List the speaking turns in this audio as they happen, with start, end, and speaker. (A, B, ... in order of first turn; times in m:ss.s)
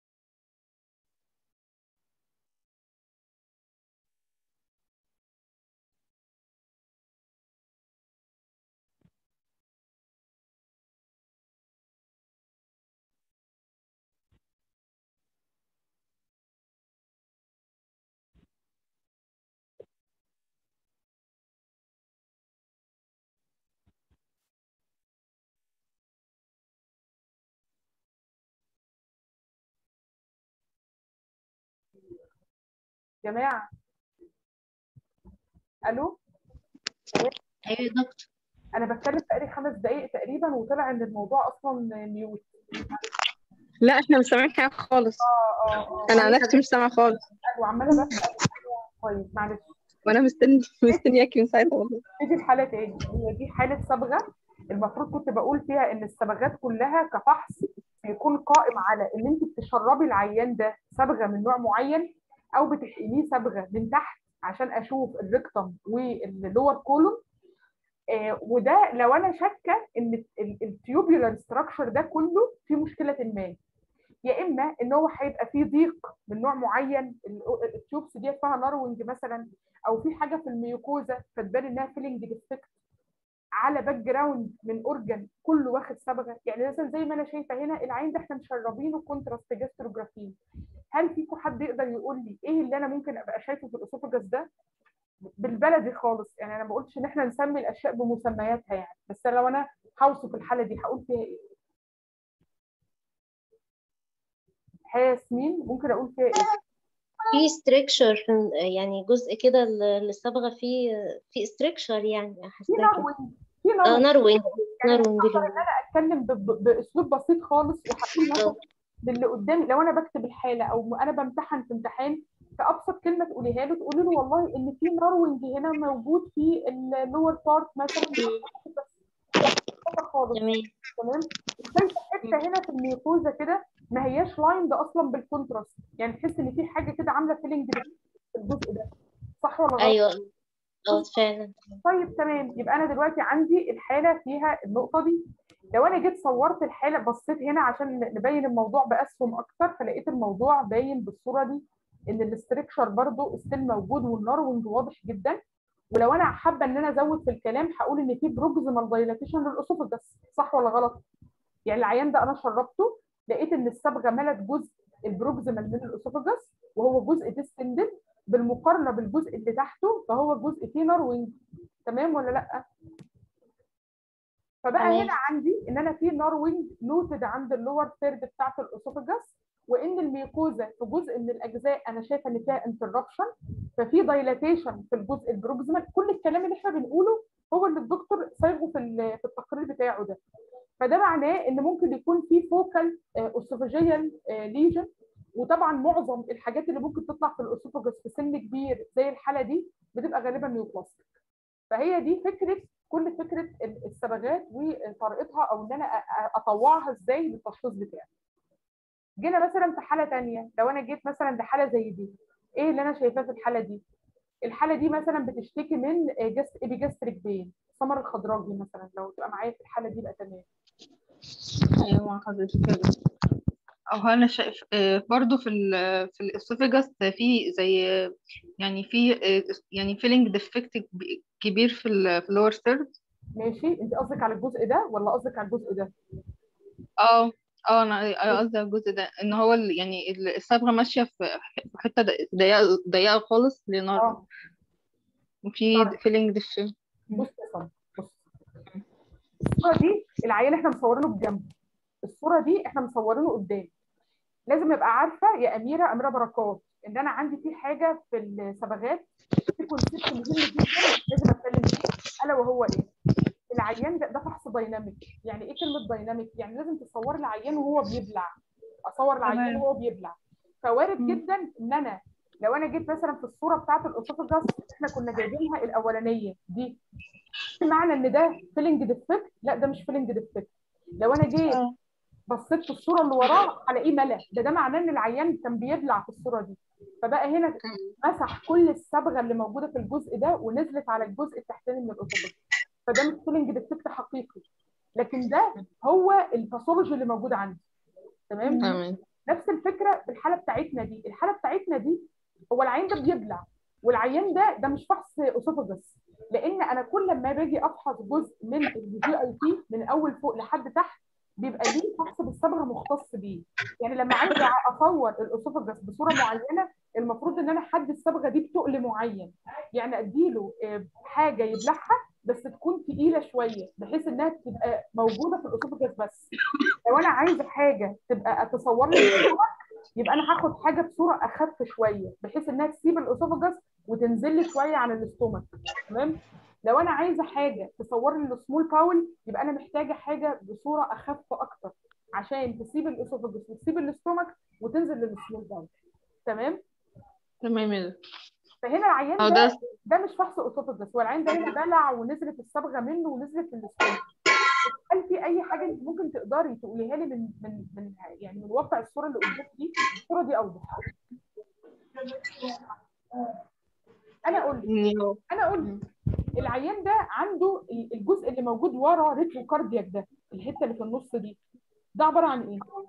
0:33.2-0:33.7 A
0:35.9-0:36.1 A
0:37.8-0:38.0 B
0:38.8-0:42.5 A
0:43.8-0:45.2 C
0:45.2-0:46.6 A
0:46.1-0:47.2 C
0:47.4-0:49.7 A
0:50.1-0:52.0 C
0:52.2-1:07.2 A
1:08.1-1:13.6 A
1:14.3-1:22.7 A
1:23.6-1:30.4 A
1:30.9-1:34.5 A
1:35.4-1:41.4 A
1:44.9-1:46.5 A
1:47.3-1:53.1 B
1:52.7-2:08.9 A
1:53.8-1:55.6 B
2:09.9-2:10.4 A
2:10.4-2:10.7 B
2:11.0-2:18.9 A
2:19.4-2:20.0 A
2:19.8-2:20.3 B
2:20.9-2:21.7 B
2:21.8-2:25.2 A
2:25.8-2:35.4 A
2:35.9-2:41.0 A
2:41.7-2:52.6 A
2:54.6-3:10.2 A
2:54.8-2:55.1 B
3:10.8-3:21.0 A
3:21.7-3:28.1 A
3:29.2-3:33.8 A
3:34.5-3:40.5 A
3:41.8-3:42.9 C
3:43.9-3:52.9 C
3:53.4-3:55.9 A
3:57.0-4:04.2 C
4:04.0-4:04.2 A
4:05.5-4:07.2 C
4:07.1-4:08.2 A
4:09.5-4:11.5 A
4:12.1-4:13.7 A
4:14.5-4:22.9 A
4:23.5-4:28.4 A
4:28.9-4:36.8 A
4:29.3-4:29.6 C
4:37.6-4:41.6 A
4:42.3-4:52.4 A
4:47.6-4:47.9 C
4:52.9-4:54.4 A
4:55.0-4:57.6 A
4:58.3-5:26.3 A
4:58.6-4:59.0 C
5:26.8-5:45.7 A
5:46.3-5:46.6 A
5:47.4-5:48.0 C
5:48.6-5:54.0 A
5:49.2-5:49.5 C
5:54.6-6:00.9 A
6:04.2-6:04.7 A
6:04.7-6:05.2 C
6:05.3-6:05.7 A
6:06.4-6:11.4 A
6:12.0-6:12.7 A